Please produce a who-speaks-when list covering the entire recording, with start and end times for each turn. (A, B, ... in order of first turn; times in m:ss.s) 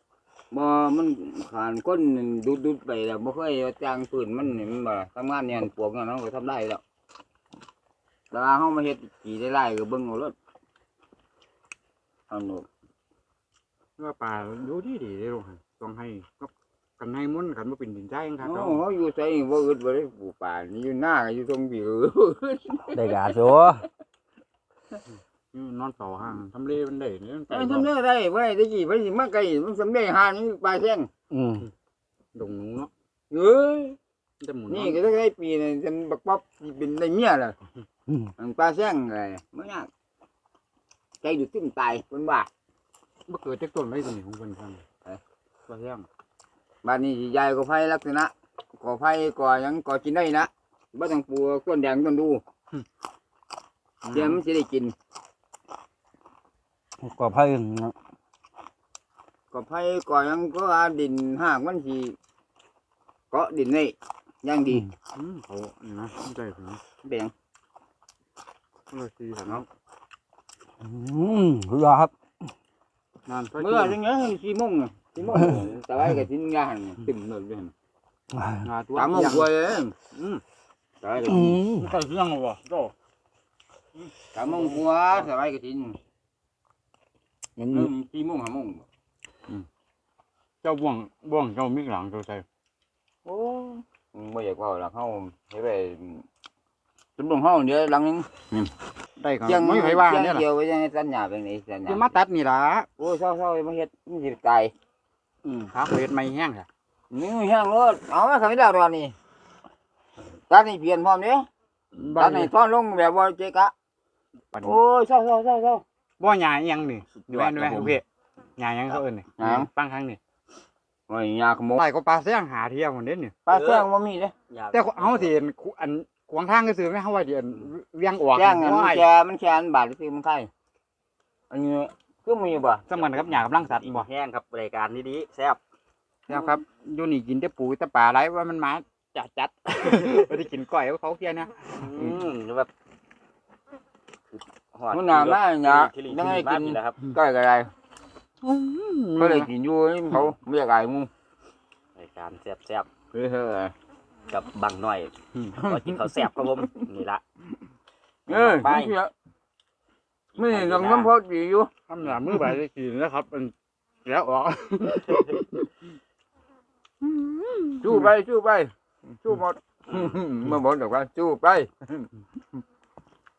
0:00.5-0:06.8 A
0:08.3-0:10.3 A
0:12.3-0:12.7 A
0:14.0-0:18.8 B
0:18.4-0:23.1 A
0:22.9-0:23.8 C
0:25.5-0:27.9 B
0:27.5-0:31.1 A
0:31.3-0:31.7 C
0:32.3-0:32.9 B
0:33.3-0:34.0 A
0:34.4-0:35.0 B
0:34.7-0:37.6 A
0:38.4-0:39.9 A
0:41.2-0:42.5 A
0:43.3-0:44.8 B
0:45.7-0:46.0 B
0:46.8-0:52.4 A
0:54.0-0:54.4 B
0:54.1-0:54.9 A
0:57.0-0:57.9 C
0:59.5-1:02.2 A
1:03.3-1:04.8 A
1:05.1-1:06.8 B
1:07.0-1:07.3 A
1:08.9-1:09.6 B
1:10.8-1:12.1 C
1:13.3-1:14.0 B
1:13.6-1:17.7 A
1:15.2-1:15.6 B
1:18.3-1:18.6 C
1:18.6-1:19.5 B
1:18.9-1:19.9 A
1:20.1-1:20.4 B
1:21.0-1:21.6 A
1:21.3-1:21.9 C
1:21.7-1:22.9 B
1:24.0-1:24.8 B
1:24.3-1:26.0 A
1:27.6-1:27.9 C
1:27.7-1:28.8 A
1:30.6-1:32.4 B
1:33.2-1:36.2 A
1:37.2-1:38.7 A
1:39.2-1:40.4 B
1:39.4-1:42.1 A
1:41.9-1:42.9 B
1:43.0-1:44.7 A
1:45.7-1:46.7 B
1:47.1-1:49.1 A
1:50.5-1:51.5 A
1:51.9-1:52.5 B
1:52.1-1:53.7 A
1:54.5-1:54.8 B
1:54.6-1:55.8 A
1:56.2-1:58.0 B
1:57.3-1:57.9 C
1:57.4-1:57.9 A
1:58.6-2:00.2 B
1:59.4-1:59.7 A
2:01.1-2:01.8 A
2:01.8-2:03.3 B
2:03.4-2:04.3 A
2:03.5-2:03.8 C
2:04.5-2:05.3 C
2:04.7-2:09.1 B
2:08.3-2:10.5 A
2:11.5-2:13.2 A
2:12.9-2:14.1 B
2:13.7-2:15.6 C
2:16.3-2:22.2 B
2:21.7-2:22.7 C
2:24.3-2:27.0 C
2:24.9-2:27.7 A
2:28.4-2:29.5 B
2:29.2-2:31.1 A
2:32.0-2:32.9 C
2:33.1-2:33.7 A
2:34.3-2:37.2 C
2:34.5-2:35.1 A
2:35.6-2:36.0 A
2:38.3-2:39.1 A
2:38.3-2:39.0 C
2:40.3-2:41.1 C
2:40.4-2:41.7 A
2:41.9-2:43.5 B
2:44.0-2:45.7 B
2:47.0-2:48.0 B
2:47.8-2:52.6 A